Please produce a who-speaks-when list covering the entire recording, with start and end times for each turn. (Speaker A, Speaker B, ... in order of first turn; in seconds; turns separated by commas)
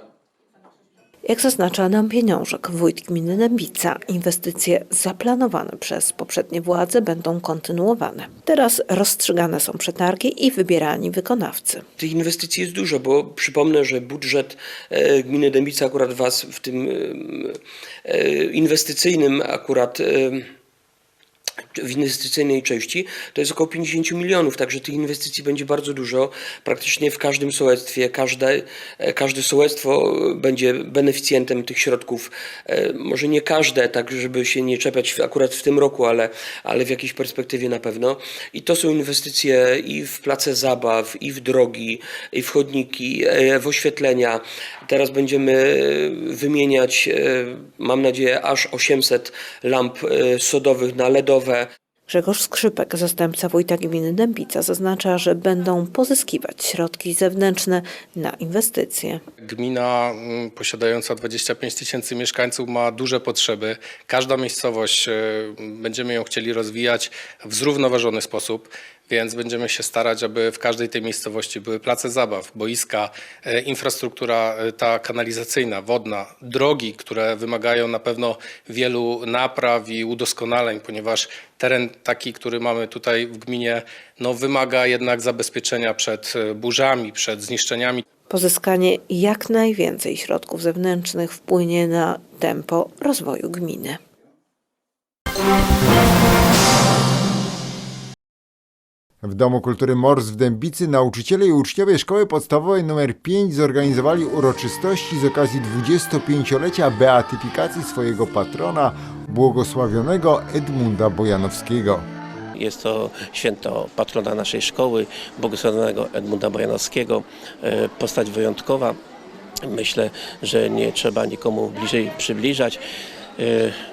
Speaker A: 1.2-11.8, Speaker B: 12.0-20.5, Speaker B: 21.7-51.7, Speaker A: 52.1-59.2, Speaker C: 59.4-88.0, Speaker A: 88.3-94.0, Speaker D: 99.2-112.1, Speaker E: 112.6-119.0, Speaker E: 119.7-122.8, Speaker E: 123.4-123.8